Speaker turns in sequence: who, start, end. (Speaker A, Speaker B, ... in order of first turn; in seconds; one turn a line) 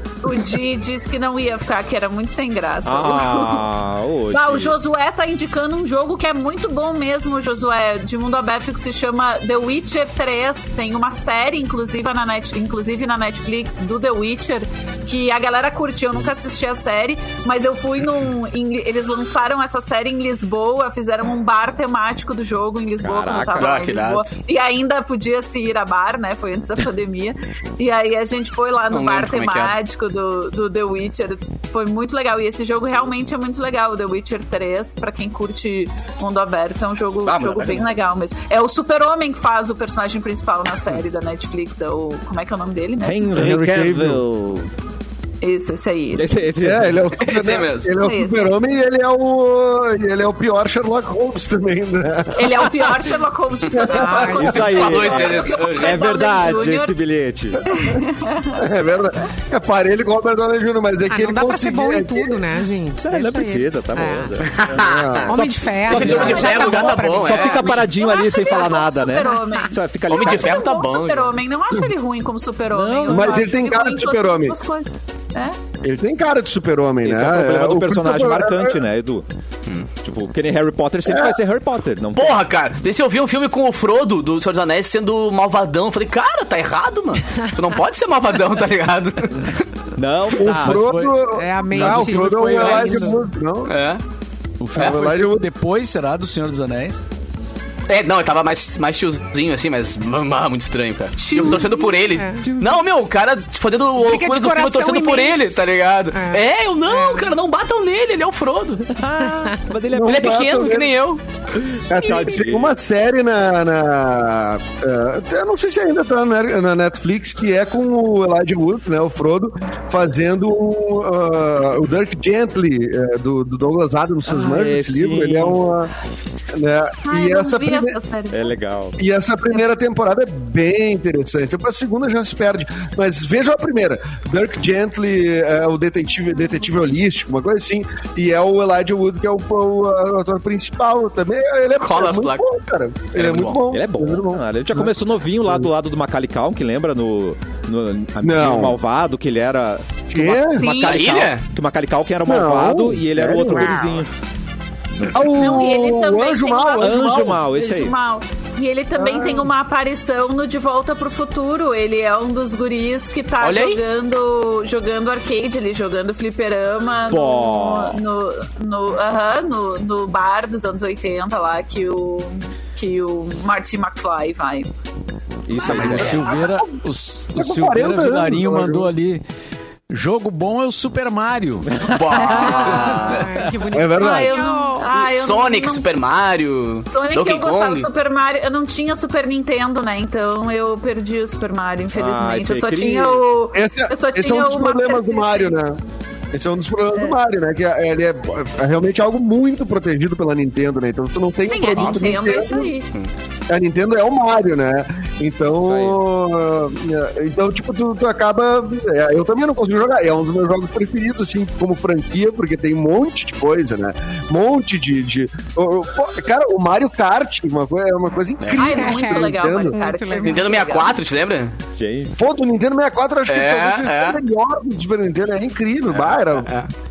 Speaker A: 0.2-3.6
Speaker B: 2.8-4.7
Speaker A: 4.3-43.4
Speaker B: 23.0-23.8
Speaker C: 23.6-24.3
Speaker C: 28.9-29.7
Speaker C: 37.2-37.8
Speaker B: 43.0-44.7
Speaker D: 43.4-44.2
Speaker A: 45.4-46.3
Speaker B: 46.2-47.0
Speaker D: 46.6-52.7
Speaker C: 47.2-47.9
Speaker A: 47.9-48.6
Speaker A: 52.3-56.9
Speaker D: 53.7-54.8
Speaker E: 53.9-54.5
Speaker B: 54.3-57.6
Speaker C: 54.5-56.0
Speaker A: 57.6-58.6
Speaker D: 58.5-62.4
Speaker E: 61.1-64.3
Speaker B: 63.0-64.7
Speaker C: 64.4-65.3
Speaker D: 64.6-65.4
Speaker E: 65.3-67.8
Speaker B: 65.3-70.7
Speaker C: 65.8-67.7
Speaker A: 65.8-75.6
Speaker D: 65.9-66.4
Speaker E: 69.2-69.7
Speaker C: 70.1-71.3
Speaker B: 72.7-73.5
Speaker D: 73.1-74.6
Speaker D: 75.8-78.8
Speaker B: 77.0-79.2
Speaker B: 80.0-82.4
Speaker D: 81.0-81.4
Speaker C: 82.2-89.6
Speaker B: 90.0-90.8
Speaker D: 90.4-93.7
Speaker F: 90.6-93.2
Speaker E: 91.3-93.2
Speaker C: 93.7-94.0
Speaker F: 94.6-97.0
Speaker D: 94.8-95.5
Speaker C: 97.9-108.9
Speaker A: 101.2-102.2
Speaker E: 101.4-102.4
Speaker B: 102.4-102.9
Speaker E: 104.0-105.6
Speaker E: 106.1-107.3
Speaker B: 108.9-110.5
Speaker E: 109.2-109.5
Speaker D: 109.9-110.9
Speaker C: 110.0-111.2
Speaker B: 111.8-112.8
Speaker D: 111.9-125.9
Speaker E: 112.0-112.4
Speaker B: 124.3-125.6
Speaker D: 126.5-128.0
Speaker A: 127.1-128.5
Speaker B: 128.3-128.9
Speaker D: 129.0-144.9
Speaker C: 141.8-142.4
Speaker C: 143.2-143.6
Speaker B: 143.7-154.1
Speaker D: 148.2-148.8
Speaker D: 150.1-150.7
Speaker A: 150.5-151.2
Speaker C: 150.8-151.4
Speaker D: 152.2-153.7
Speaker C: 153.6-153.9
Speaker B: 155.0-155.6
Speaker D: 155.1-157.2
Speaker A: 155.3-174.7
Speaker B: 156.8-157.9
Speaker D: 159.0-159.5
Speaker C: 163.4-163.8
Speaker B: 167.1-168.0
Speaker B: 175.5-176.3
Speaker A: 175.6-176.5
Speaker F: 175.6-179.2
Speaker D: 175.7-176.0
Speaker C: 175.8-176.1
Speaker D: 177.3-178.9
Speaker F: 179.9-181.7
Speaker B: 181.8-183.0
Speaker C: 181.9-183.3
Speaker E: 182.3-184.9
Speaker F: 182.4-183.5
Speaker D: 183.7-184.3
Speaker A: 183.8-185.9
Speaker C: 184.9-187.9
Speaker A: 186.9-195.6
Speaker B: 191.9-193.2
Speaker D: 193.5-195.8
Speaker D: 196.3-202.7
Speaker A: 201.4-202.9
Speaker C: 201.8-202.1
Speaker D: 203.5-219.8
Speaker B: 205.6-206.0
Speaker C: 218.4-218.7
Speaker A: 218.5-221.0
Speaker E: 218.5-220.5
Speaker C: 220.2-221.5
Speaker B: 221.8-222.1
Speaker D: 222.2-226.5
Speaker C: 223.3-224.2
Speaker C: 225.9-226.7